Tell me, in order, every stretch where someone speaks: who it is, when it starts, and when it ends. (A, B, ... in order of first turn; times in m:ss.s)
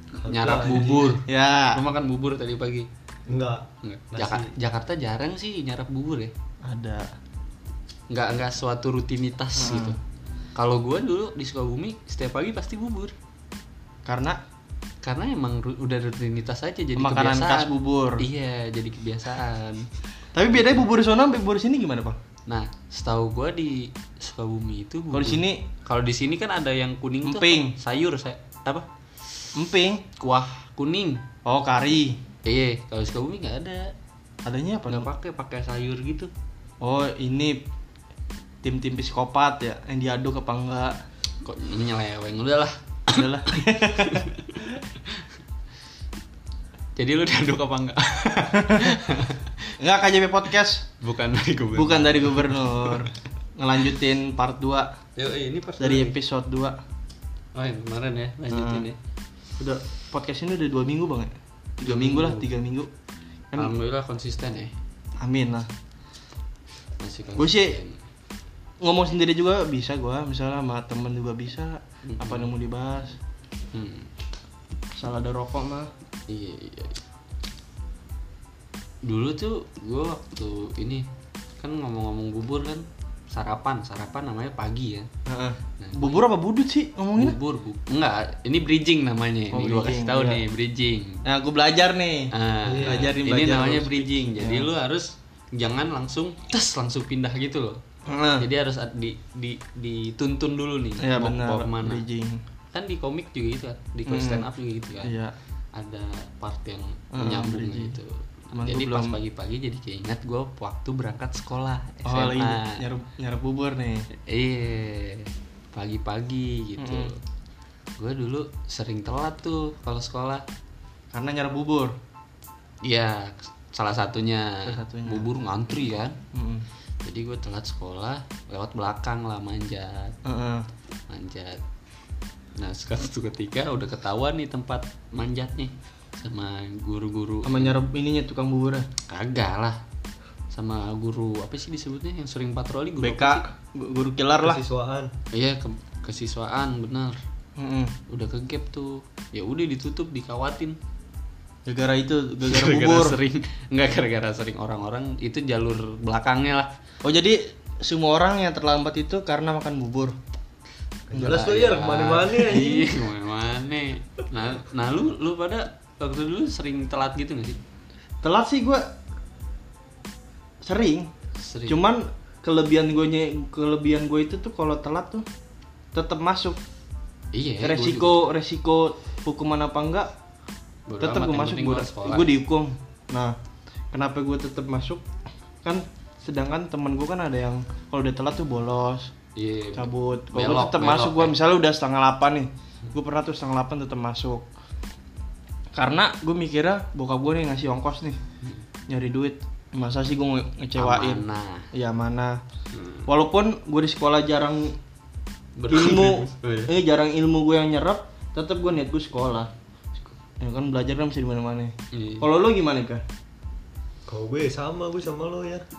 0:00.2-0:01.2 A
0:00.2-0:02.9 B
0:01.2-0:01.8 C
0:03.3-0:04.5 A
0:03.8-0:06.3 B
0:06.6-0:07.1 C
0:08.1-0:10.0 B
0:09.6-0:10.0 C
0:10.6-0:13.2 B
0:14.1-0:14.4 C
0:15.0-0:19.9 B
0:17.0-0:18.2 C
0:20.3-0:22.2 C
0:20.5-0:20.9 B
0:22.5-0:28.9 B
0:25.1-0:25.6 C
0:27.2-0:27.8 C
0:29.6-0:30.1 C
0:30.2-0:31.2 B
0:31.5-0:32.2 C
0:32.4-0:34.0 B
0:34.4-0:35.1 C
0:34.9-0:36.3 B
0:36.8-0:37.6 C
0:38.6-0:41.0 C
0:41.4-0:45.3 B
0:43.1-0:44.3 C
0:47.0-0:49.7 B
0:49.8-0:50.9 C
0:51.0-0:53.1 B
0:51.8-0:55.0 C
0:55.2-0:56.2 B
0:55.8-0:56.8 C
0:57.5-0:59.0 B
0:58.5-0:58.9 C
0:59.6-1:02.9 C
1:01.8-1:02.5 B
1:03.6-1:04.7 B
1:05.2-1:05.7 C
1:07.0-1:08.0 B
1:07.4-1:07.8 C
1:08.8-1:13.2 C
1:12.0-1:12.5 B
1:13.7-1:14.1 B
1:15.0-1:15.9 C
1:16.3-1:17.0 B
1:19.0-1:21.1 B
1:21.6-1:25.1 B
1:25.3-1:27.4 C
1:25.8-1:26.2 B
1:27.2-1:31.2 B
1:29.5-1:30.4 C
1:31.2-1:34.7 C
1:32.3-1:37.8 B
1:32.6-1:33.1 A
1:38.1-1:38.5 C
1:38.4-1:42.0 B
1:41.0-1:42.4 C
1:42.7-1:45.2 B
1:44.1-1:44.5 C
1:45.0-1:45.3 C
1:45.7-1:52.8 B
1:47.1-1:48.0 C
1:48.5-1:49.2 C
1:52.0-1:54.1 C
1:54.2-1:57.2 B
1:56.8-1:57.1 C
1:58.0-2:00.4 B
2:01.1-2:02.0 C
2:02.8-2:06.2 B
2:04.6-2:05.3 C
2:06.3-2:06.6 C
2:07.0-2:10.2 B
2:10.2-2:10.6 C
2:11.1-2:11.6 B
2:12.6-2:17.8 B
2:17.4-2:18.9 C
2:19.1-2:19.8 B
2:20.5-2:23.4 B
2:23.0-2:24.6 C
2:24.4-2:25.1 A
2:25.3-2:27.2 B
2:27.6-2:28.0 C
2:28.1-2:30.8 B
2:31.7-2:33.2 C
2:32.4-2:36.7 B
2:37.0-2:40.2 C
2:41.1-2:42.9 A
2:41.2-2:47.6 B
2:48.2-2:48.9 C
2:50.6-2:51.1 C
2:51.4-2:51.8 B
2:51.7-2:55.2 C
2:55.9-2:56.6 C
2:57.3-2:58.2 B
2:57.6-3:00.1 C
3:00.9-3:02.4 B
3:01.0-3:03.3 C
3:03.9-3:05.0 C
3:05.6-3:09.1 C
3:09.4-3:11.4 B
3:09.8-3:14.5 C
3:15.7-3:18.2 C
3:18.9-3:22.4 C
3:20.8-3:21.7 B
3:22.7-3:23.1 B
3:23.1-3:24.8 C
3:25.6-3:26.7 B
3:25.7-3:29.5 C
3:30.4-3:33.0 C
3:31.9-3:32.3 B
3:34.1-3:35.6 A